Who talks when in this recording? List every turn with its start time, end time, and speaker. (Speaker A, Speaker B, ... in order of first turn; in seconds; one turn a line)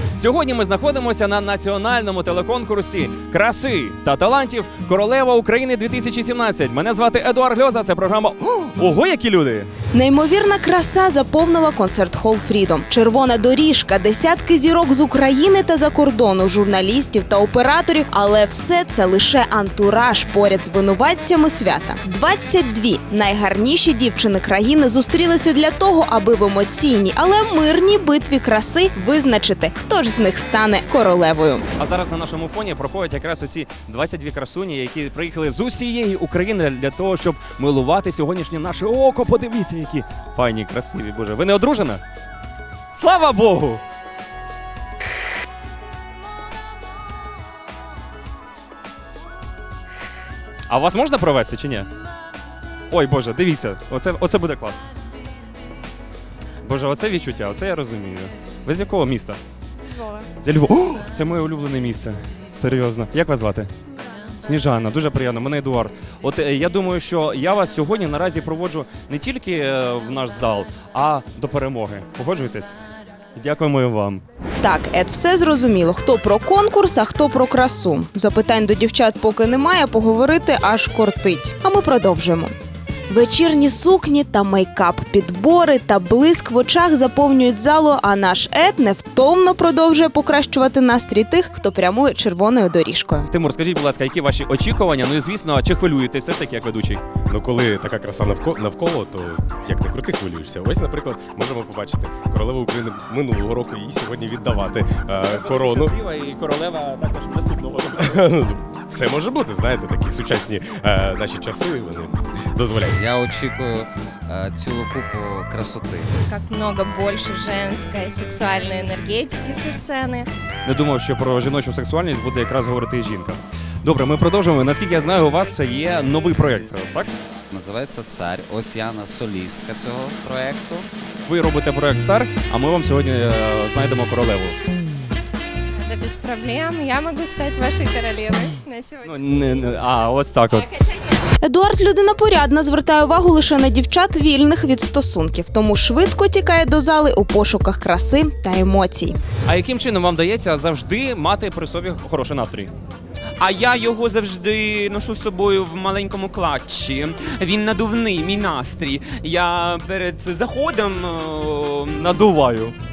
Speaker A: 0.1-9.7
Speaker B: 9.9-31.6
Speaker A: 31.8-42.0
Speaker A: 42.9-43.8
Speaker A: 50.7-51.9
Speaker A: 52.9-54.8
Speaker A: 56.6-59.4
Speaker A: 60.4-63.7
Speaker A: 64.4-72.7
Speaker A: 73.3-74.2
Speaker B: 74.6-82.5
Speaker B: 83.1-93.3
Speaker A: 93.3-97.0
Speaker C: 97.3-105.8
Speaker A: 105.2-108.2
Speaker C: 108.2-112.6
Speaker D: 112.8-116.1
Speaker E: 116.3-120.2
Speaker A: 120.6-127.1
Speaker D: 127.5-130.9
Speaker A: 131.2-134.5
Speaker E: 135.8-139.1
Speaker A: 139.0-140.7
Speaker B: 141.4-149.2
Speaker A: 149.4-152.7
Speaker F: 153.4-162.2
Speaker A: 161.9-162.7